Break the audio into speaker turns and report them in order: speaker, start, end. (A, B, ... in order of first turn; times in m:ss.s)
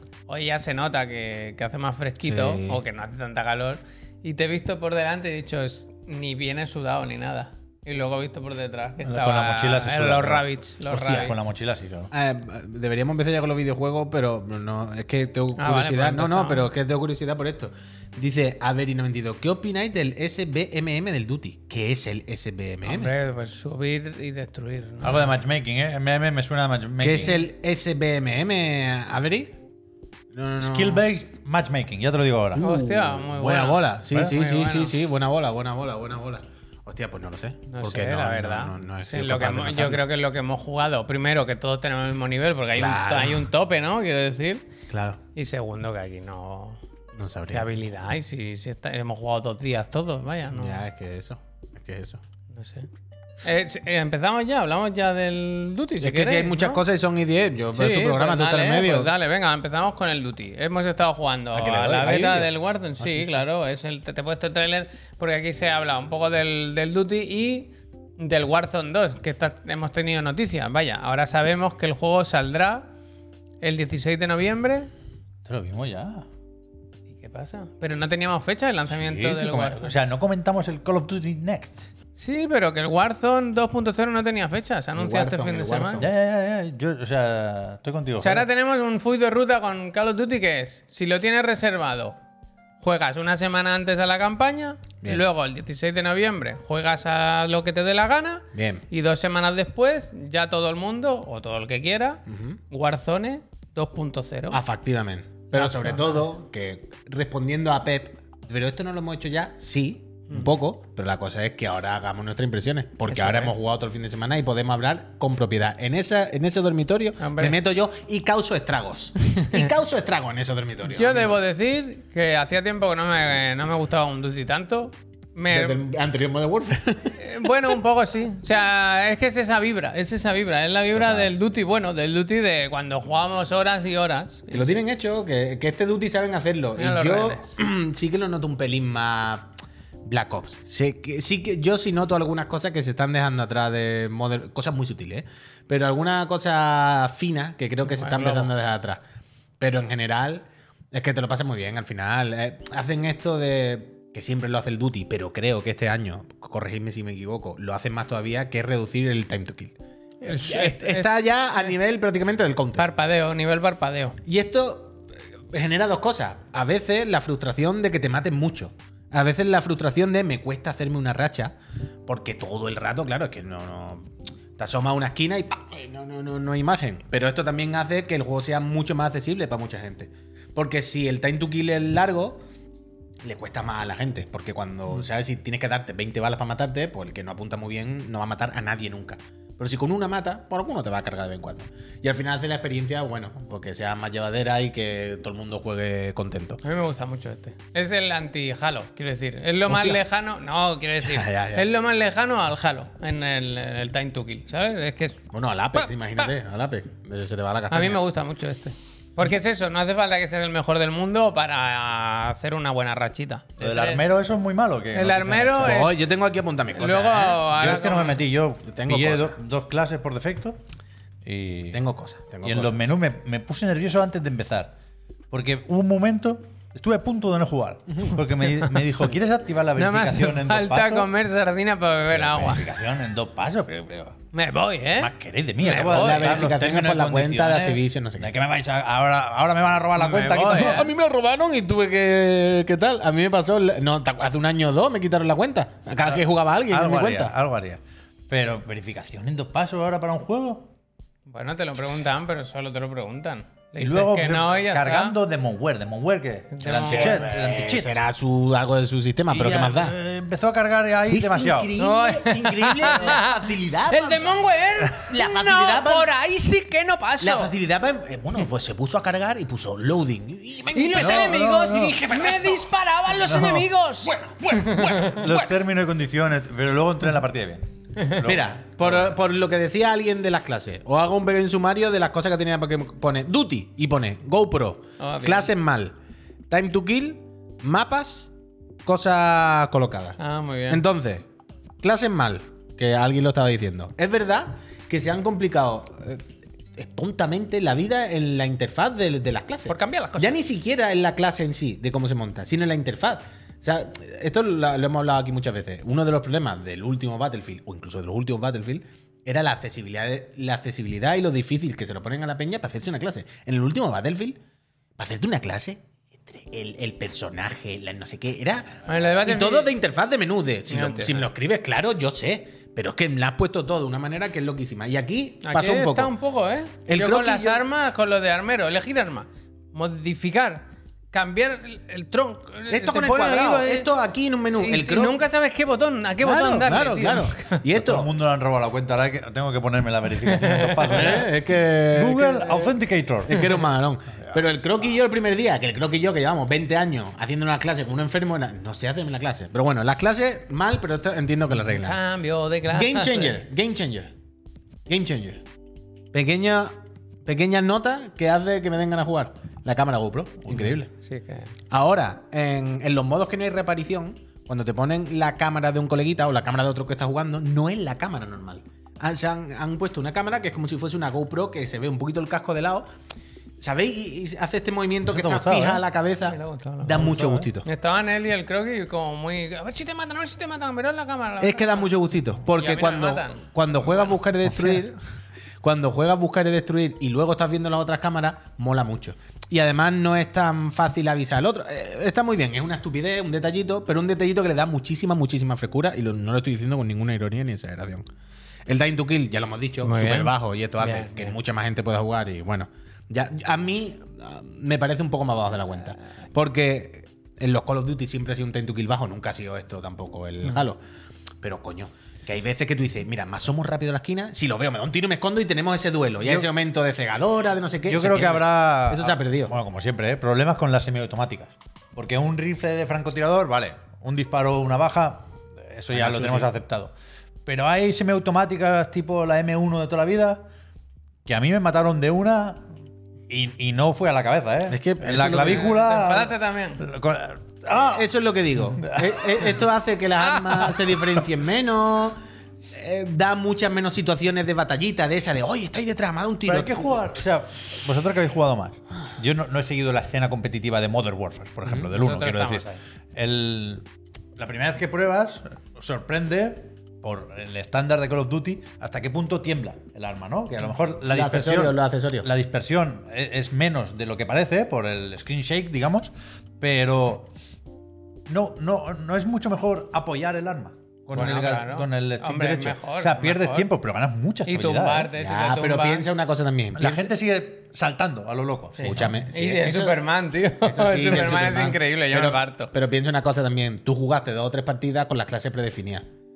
0:00.3-0:11.4 A
0:02.2-0:02.8 B
0:09.0-0:10.5 C
0:10.9-0:11.3 B
0:11.0-0:12.1 C
0:12.1-0:23.1 B
0:15.6-0:16.7 A
0:22.8-0:25.2 A
0:25.0-0:27.4 C
0:27.0-0:29.5 B
0:30.3-0:31.0 B
0:30.6-0:32.6 C
0:32.5-0:40.0 B
0:32.6-0:34.9 A
0:37.7-0:44.7 A
0:42.7-0:43.5 B
0:44.9-0:45.2 B
0:45.3-0:46.8 A
0:47.1-0:47.8 B
0:47.5-0:50.8 A
0:50.5-0:52.2 B
0:52.5-0:52.9 A
0:53.4-0:56.8 A
0:56.0-0:59.1 B
0:57.7-1:12.9 A
1:01.5-1:03.3 B
1:13.6-1:14.9 A
1:15.4-1:16.2 C
1:17.1-1:19.9 A
1:18.9-1:21.9 C
1:22.1-1:26.0 A
1:25.0-1:26.1 B
1:26.0-1:28.5 C
1:28.2-1:32.2 A
1:32.8-1:44.6 A
1:38.5-1:38.8 B
1:42.3-1:42.6 B
1:44.5-2:01.4 B
1:45.5-1:46.2 A
1:53.1-1:53.5 A
1:57.2-1:57.6 A
1:59.3-1:59.7 A
2:00.9-2:05.8 A
2:05.5-2:07.7 B
2:07.2-2:14.8 A
2:11.0-2:11.3 B
2:14.5-2:19.5 B
2:16.8-2:17.5 A
2:20.0-2:29.0 B
2:27.8-2:28.5 A
2:29.6-2:42.9 B
2:40.2-2:41.7 A
2:42.8-2:44.2 A
2:44.2-2:51.5 B
2:52.1-3:02.4 B
3:03.2-3:16.6 B
3:16.6-3:25.2 A
3:19.7-3:20.0 B
3:21.0-3:21.7 B
3:25.3-3:28.0 B
3:25.7-3:26.3 A
3:27.7-3:34.0 A
3:33.6-3:35.8 C
3:34.9-3:36.0 A
3:35.6-3:37.4 B
3:36.7-3:38.2 A
3:37.2-3:40.6 C
3:38.6-3:39.4 B
3:41.2-3:41.8 C
3:41.7-3:42.8 B
3:42.4-3:44.8 C
3:45.3-3:51.1 C
3:49.8-3:52.6 A
3:52.1-3:54.2 C
3:54.3-3:56.4 A
3:55.0-4:00.9 C
3:55.9-3:58.3 B
4:00.0-4:00.9 A
4:00.5-4:07.3 B
4:06.0-4:10.7 C
4:11.3-4:15.2 A
4:13.8-4:18.0 C
4:16.5-4:17.3 A
4:16.6-4:20.0 B
4:19.3-4:21.7 C
4:21.1-4:26.1 B
4:21.8-4:27.5 A
4:27.2-4:32.7 B
4:30.7-4:34.9 A
4:30.9-4:32.0 C
4:33.2-4:33.7 C
4:34.0-4:35.5 B
4:35.0-4:39.2 C
4:38.2-4:45.9 B
4:45.0-4:45.5 A
4:46.5-4:48.3 B
4:48.8-4:51.2 B
4:50.2-4:50.8 A
4:51.8-4:56.2 B
4:56.8-5:14.4 B
4:59.7-5:00.4 A
5:15.0-5:26.1 B
5:18.8-5:19.7 A
5:20.7-5:21.3 A
5:25.4-5:33.9 A
5:26.8-5:27.6 B
5:32.7-5:35.2 B
5:34.6-5:37.6 A
5:36.2-5:38.1 B
5:37.7-5:41.3 C
5:40.2-5:41.2 A
5:40.9-5:52.0 B
5:41.9-5:43.4 C
5:51.7-5:53.4 A
5:52.7-5:54.1 B
5:54.9-5:55.4 B
5:56.1-6:00.9 B
6:00.5-6:00.8 C
6:01.0-6:01.5 A
6:01.7-6:12.9 B
6:13.6-6:17.7 B
6:15.1-6:15.8 C
6:16.2-6:24.2 A
6:16.9-6:17.4 C
6:21.4-6:25.0 B
6:24.5-6:24.8 C
6:25.6-6:38.0 B
6:38.7-6:50.8 B
6:39.8-6:41.4 A
6:51.4-6:59.5 B
6:56.2-6:56.5 C
6:57.9-7:06.9 C
7:05.9-7:06.5 B
7:07.4-7:10.4 C
7:11.2-7:12.6 C
7:13.3-7:18.1 C
7:14.7-7:15.7 B
7:15.4-7:16.8 A
7:17.7-7:22.2 B
7:18.8-7:19.6 C
7:20.4-7:21.2 C
7:22.7-7:27.0 B
7:26.4-7:47.3 C
7:31.9-7:32.8 A
7:41.1-7:42.3 B
7:48.3-7:55.1 C
7:51.1-7:53.7 A
7:54.4-7:56.1 A
7:55.2-7:57.1 B
7:56.8-7:59.2 C
7:58.8-8:02.7 A
7:58.8-8:00.0 B
8:00.6-8:06.0 B